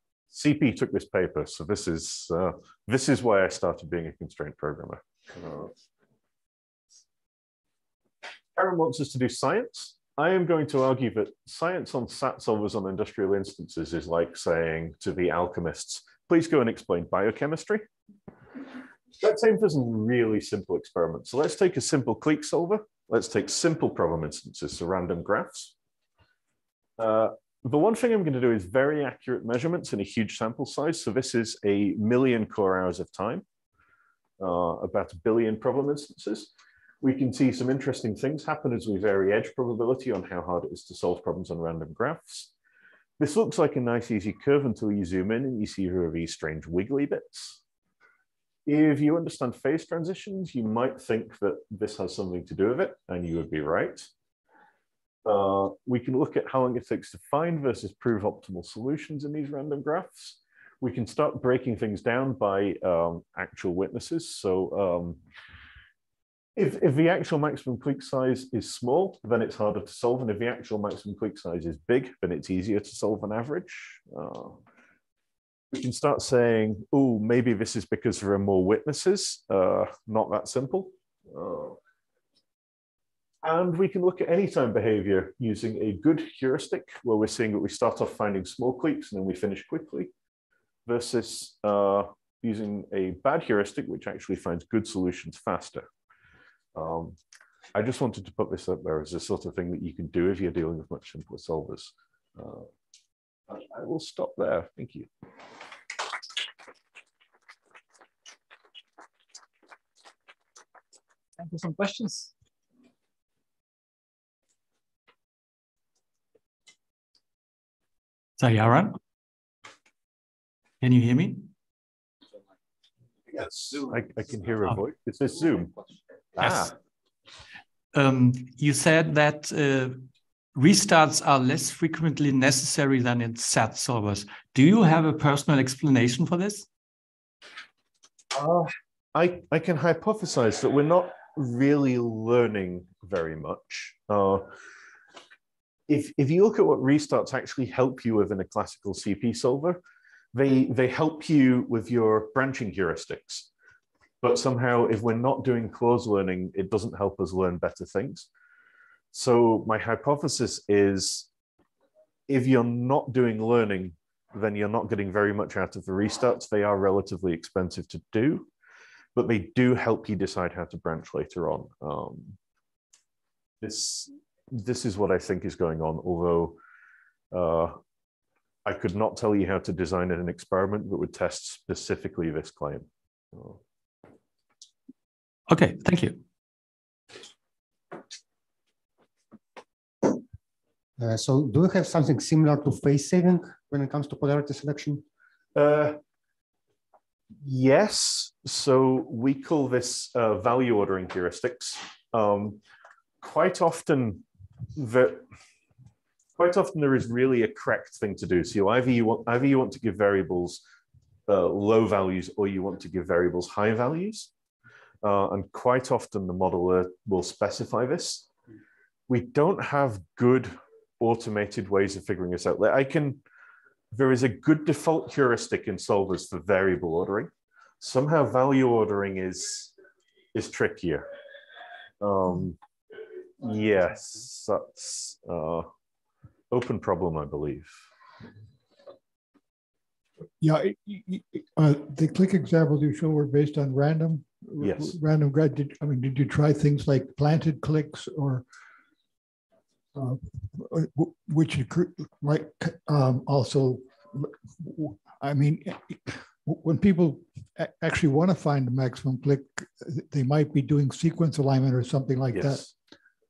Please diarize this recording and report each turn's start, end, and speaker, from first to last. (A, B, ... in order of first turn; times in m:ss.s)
0:00.3-0:05.7 A
0:08.6-0:17.8 A
0:19.2-0:25.7 A
0:27.0-0:33.4 A
0:34.4-0:36.5 A
0:37.0-0:42.5 A
0:43.2-0:47.6 A
0:48.7-0:54.1 A
0:55.2-1:05.2 A
1:06.6-1:14.6 A
1:15.7-1:21.8 A
1:23.4-1:30.1 A
1:30.9-1:35.9 A
1:36.8-1:37.2 A
1:37.8-1:42.7 A
1:43.5-1:45.1 A
1:51.5-1:52.1 B
1:58.4-1:59.0 B
2:00.8-2:01.5 B
2:03.3-2:05.7 A
2:06.4-2:06.7 A
2:06.4-2:06.7 B
2:07.9-2:16.7 B
2:18.3-2:24.5 A
2:25.9-2:29.8 A
2:30.3-2:33.5 A
2:34.2-2:38.3 A
2:39.1-2:41.3 A
2:42.3-2:48.5 A
2:49.2-2:52.4 A
2:53.6-2:56.6 A
2:57.3-2:57.8 A
2:58.6-3:03.6 A
3:05.5-3:06.2 B
3:11.0-3:15.0 C
3:15.6-3:16.0 A
3:17.4-3:22.6 A
3:23.2-3:24.2 A
3:24.8-3:25.2 A
3:26.4-3:30.6 A
3:31.3-3:34.3 A
3:35.0-3:38.3 A
3:39.1-3:43.2 A
3:43.9-3:47.3 A
3:47.8-3:49.7 A
3:50.3-3:51.1 A
3:52.0-3:52.6 A
3:53.4-3:55.7 A
3:56.5-3:57.8 A
4:00.4-4:08.4 D
4:04.6-4:05.0 A
4:10.0-4:22.7 D
4:22.3-4:22.7 A